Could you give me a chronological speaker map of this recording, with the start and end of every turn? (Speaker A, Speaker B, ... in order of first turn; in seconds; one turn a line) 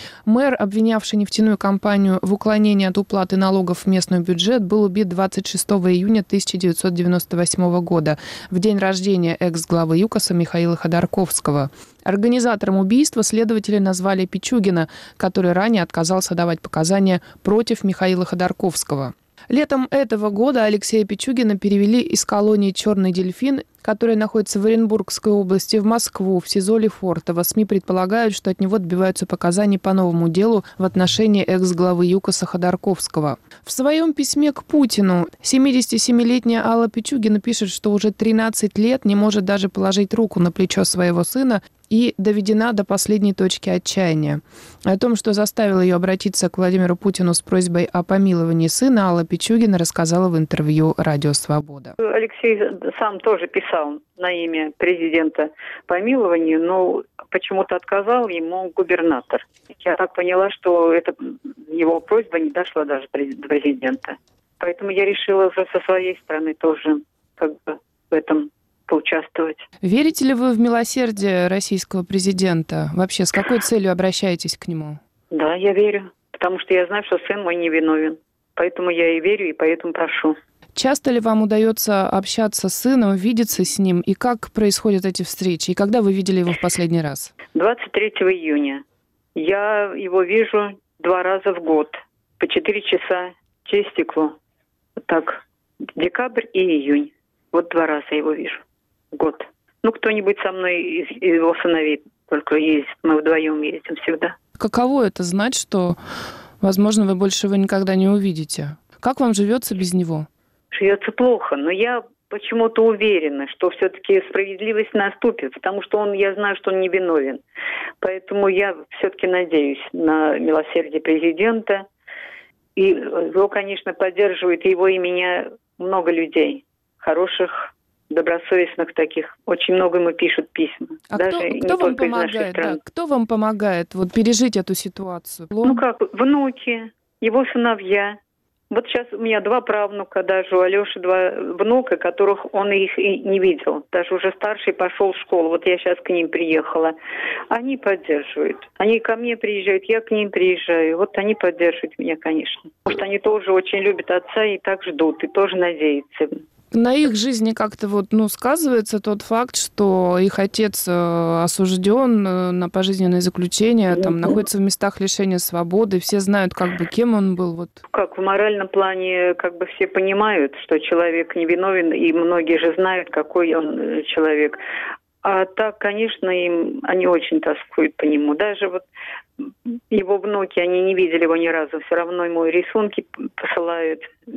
Speaker A: 0.3-52.0
Speaker B: 52.0-61.1
Speaker B: 61.7-69.6
Speaker A: 69.8-75.0
Speaker B: 75.3-80.4
Speaker A: 80.8-87.3
Speaker B: 87.5-88.8
Speaker B: 89.4-94.3
Speaker B: 95.0-95.4
Speaker B: 96.0-98.6
Speaker B: 99.1-104.4
Speaker A: 104.6-106.0
Speaker A: 106.6-110.3
Speaker B: 110.7-117.4
Speaker B: 118.0-121.8
Speaker B: 122.8-132.8
Speaker A: 131.1-135.8
Speaker B: 135.6-138.2
Speaker B: 138.7-146.9
Speaker B: 147.5-156.4
Speaker A: 156.7-167.8
Speaker B: 167.9-174.6
Speaker B: 175.2-178.8
Speaker B: 179.9-184.1